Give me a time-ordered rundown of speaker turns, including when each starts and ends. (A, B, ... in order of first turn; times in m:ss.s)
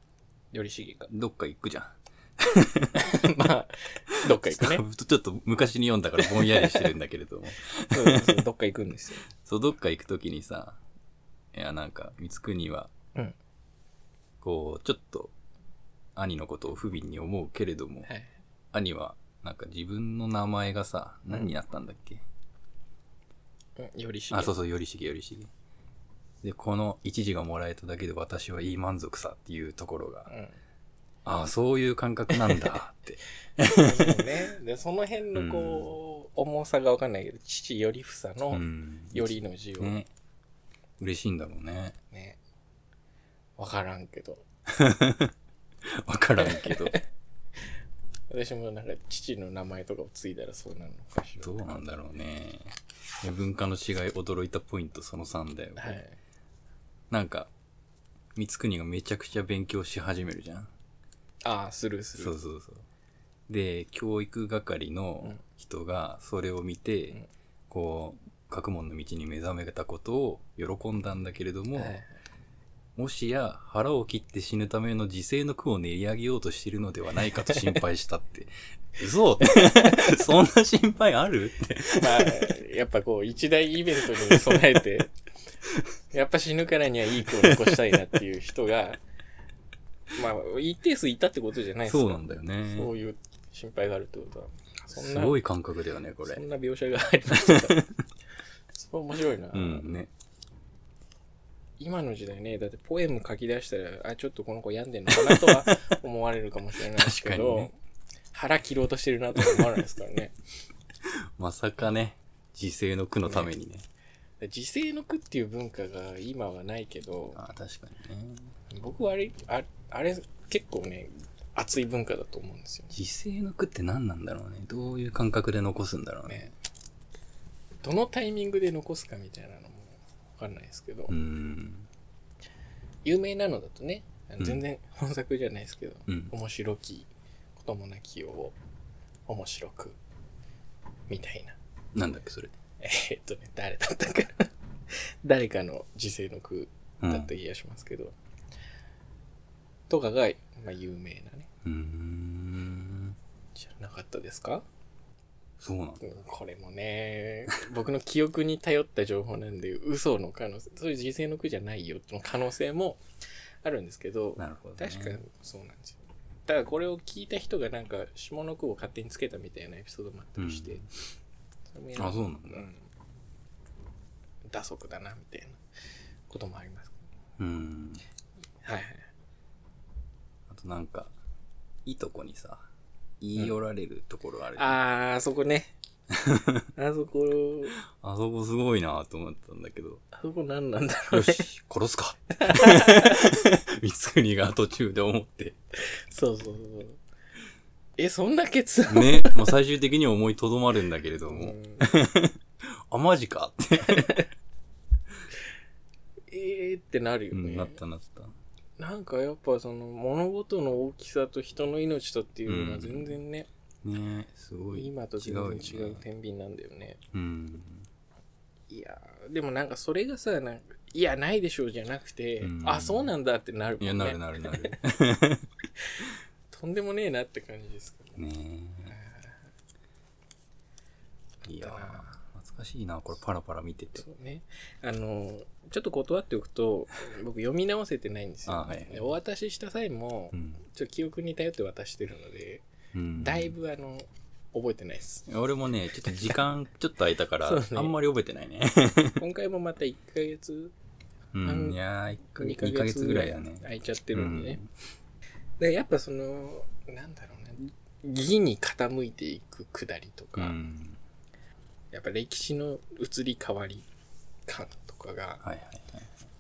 0:00.5-0:01.1 A
0:01.1-0:03.3 B
0:03.0-0:04.8 A
0:04.1-0:08.4 B
0:06.2-0:06.9 A
0:07.9-0:09.3 A
0:09.4-0:10.8 B
0:11.5-0:12.9 B
0:14.4-0:15.3 B
0:16.2-0:18.1 B
0:18.7-0:22.2 B
0:23.8-0:24.5 A
0:24.3-0:25.5 B
0:26.4-0:30.3 B
0:30.3-0:30.6 A
0:31.2-0:34.3 B
0:33.7-0:38.6 A
0:35.3-0:36.0 B
0:38.5-0:40.1 B
0:39.1-0:40.0 A
0:41.0-0:42.0 B
0:42.1-0:42.4 A
0:43.6-0:44.4 A
0:44.7-0:45.3 B
0:45.8-0:47.0 B
0:46.5-0:47.0 A
0:48.3-0:51.9 A
0:51.4-0:56.0 B
0:55.8-0:56.2 A
0:57.1-0:57.5 B
0:58.4-1:00.7 B
1:01.4-1:02.3 A
1:02.2-1:02.8 B
1:03.5-1:07.2 B
1:07.7-1:12.0 B
1:11.8-1:12.1 A
1:13.0-1:22.5 B
1:19.5-1:20.2 A
1:22.0-1:25.1 A
1:24.2-1:24.6 B
1:26.1-1:29.0 A
1:27.3-1:27.7 B
1:30.1-1:35.4 A
1:31.8-1:32.9 B
1:34.9-1:36.4 B
1:36.2-1:37.8 A
1:37.4-1:38.0 B
1:38.8-1:39.9 A
1:39.5-1:40.1 B
1:41.8-1:47.8 A
1:45.1-1:45.8 B
1:47.0-1:47.7 B
1:48.3-1:50.4 A
1:49.4-1:49.7 B
1:51.0-1:53.9 B
1:54.4-1:57.4 A
1:57.4-1:58.5 B
1:58.7-2:02.9 A
2:02.9-2:06.5 B
2:06.3-2:06.5 A
2:07.8-2:11.2 A
2:11.1-2:11.9 B
2:13.0-2:18.6 A
2:16.1-2:16.3 B
2:19.3-2:20.0 A
2:21.1-2:21.6 A
2:22.0-2:22.5 B
2:22.8-2:28.2 A
2:27.0-2:27.3 B
2:29.9-2:31.5 A
2:31.6-2:33.2 B
2:33.6-2:34.6 A
2:35.6-2:36.1 B
2:36.0-2:43.0 A
2:43.6-2:50.9 A
2:44.4-2:45.2 B
2:50.4-2:50.9 B
2:51.7-2:52.9 A
2:52.0-2:52.7 B
2:54.5-2:55.6 A
2:56.3-2:57.0 A
2:57.4-2:58.0 B
2:58.6-2:59.1 A
3:00.5-3:01.1 B
3:01.8-3:02.7 B
3:03.2-3:04.8 B
3:04.6-3:05.7 A
3:06.1-3:06.7 B
3:06.8-3:07.8 A
3:07.9-3:10.0 B
3:10.1-3:11.4 A
3:11.1-3:15.6 B
3:12.3-3:13.3 A
3:15.8-3:17.0 A
3:18.0-3:19.5 A
3:18.9-3:24.2 B
3:21.3-3:22.0 A
3:23.8-3:24.3 A
3:26.3-3:27.8 A
3:27.3-3:28.3 B
3:28.8-3:33.5 A
3:32.5-3:33.2 B
3:33.8-3:36.0 B
3:34.7-3:37.0 A
3:37.1-3:37.9 B
3:38.7-3:44.8 A
3:42.4-3:43.1 B
3:43.8-3:45.5 B
3:46.0-3:48.2 A
3:48.2-3:48.9 B
3:48.9-3:49.4 A
3:51.4-3:54.0 B
3:51.6-3:52.2 A
3:54.0-4:02.6 A
3:58.5-3:59.1 B
4:00.3-4:00.6 B
4:02.9-4:03.5 B
4:03.2-4:05.3 A
4:05.3-4:09.2 B
4:07.4-4:07.9 A
4:09.2-4:10.7 A
4:11.3-4:14.7 B
4:11.4-4:11.8 A
4:12.4-4:14.6 A
4:15.6-4:20.6 A
4:20.4-4:21.0 B
4:21.9-4:23.9 A
4:24.5-4:25.4 A
4:25.4-4:26.2 B